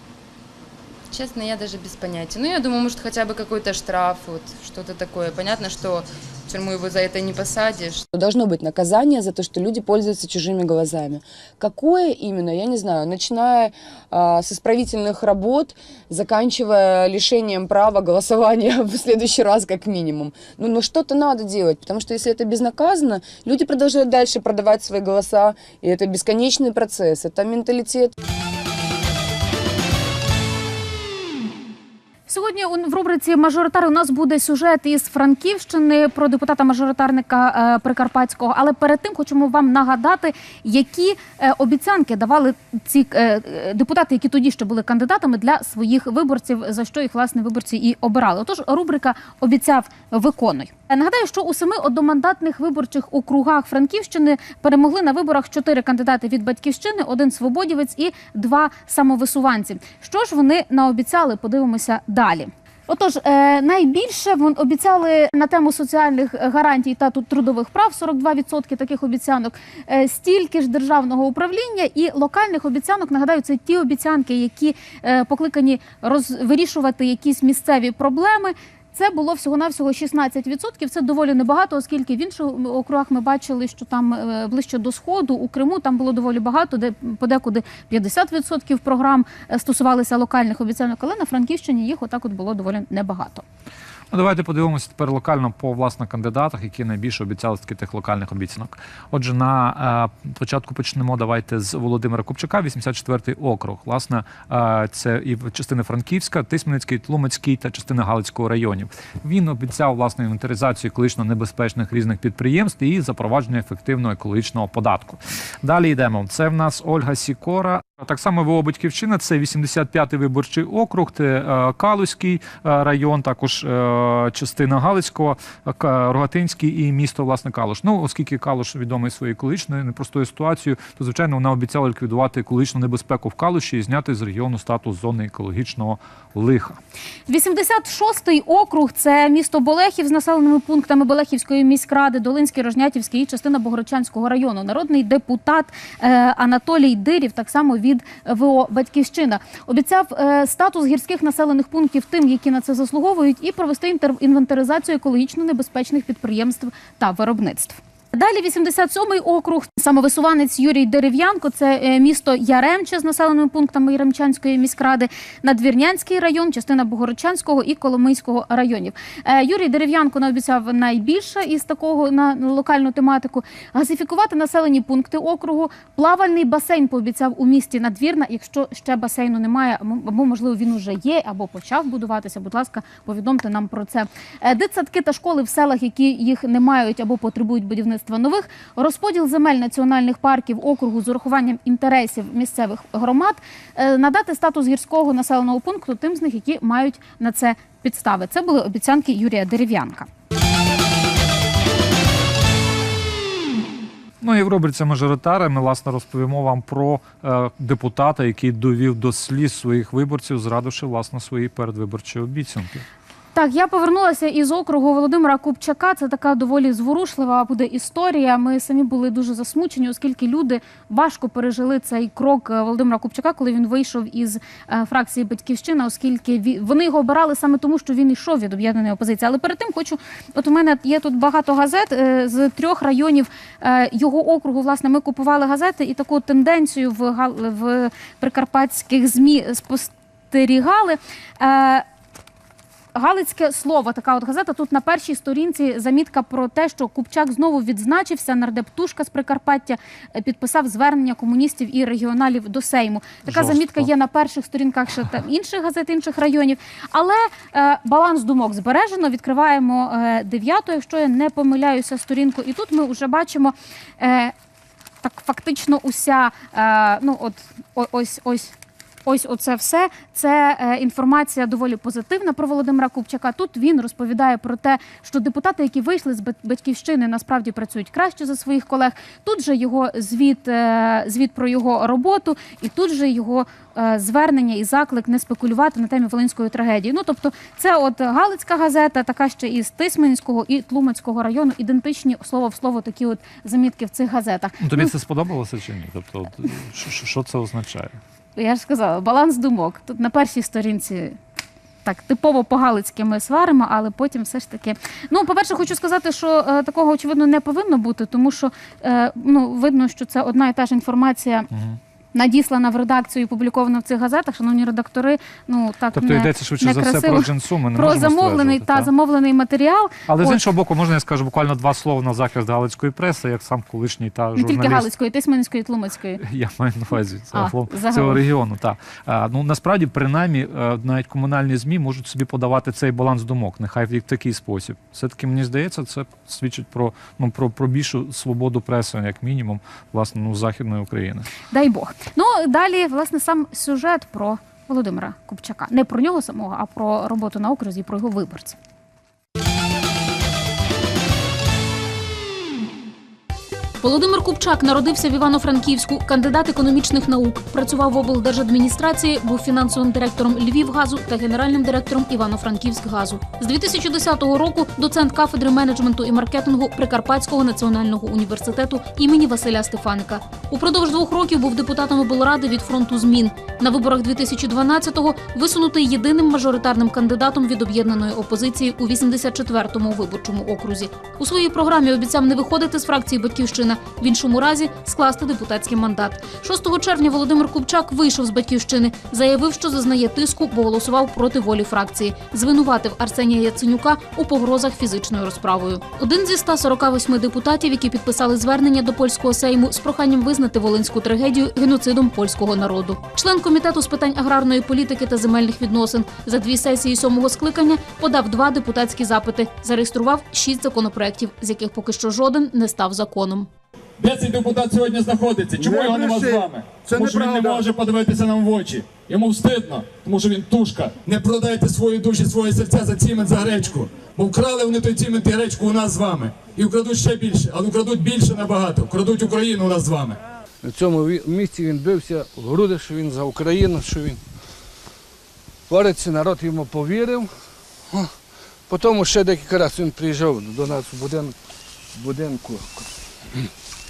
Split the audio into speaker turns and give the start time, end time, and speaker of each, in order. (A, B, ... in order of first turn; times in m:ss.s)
0:01.1-0:08.1 A
0:08.1-0:28.1 B
0:32.3-1:33.4 C
1:34.1-2:16.8 D
2:17.3-3:20.1 C
3:24.2-3:32.8 D
3:33.3-4:01.8 C
4:02.9-4:24.3 C
4:13.3-4:13.9 D
4:25.0-4:28.5 C
4:29.0-4:54.9 C
4:54.6-4:58.0 D
4:58.4-5:01.2 C
5:01.8-5:11.5 C
5:11.5-5:11.8 D
5:12.1-5:20.4 C
5:15.9-5:18.9 D
5:20.1-5:24.9 D
5:24.4-5:26.2 C
5:26.2-5:41.3 D
5:27.3-5:28.2 C
5:41.5-5:48.6 C
5:53.8-6:53.5 C
6:54.0-7:10.2 E
7:10.6-7:14.2 F
7:15.7-7:17.3 F
7:18.7-7:21.3 F
7:21.9-7:22.9 F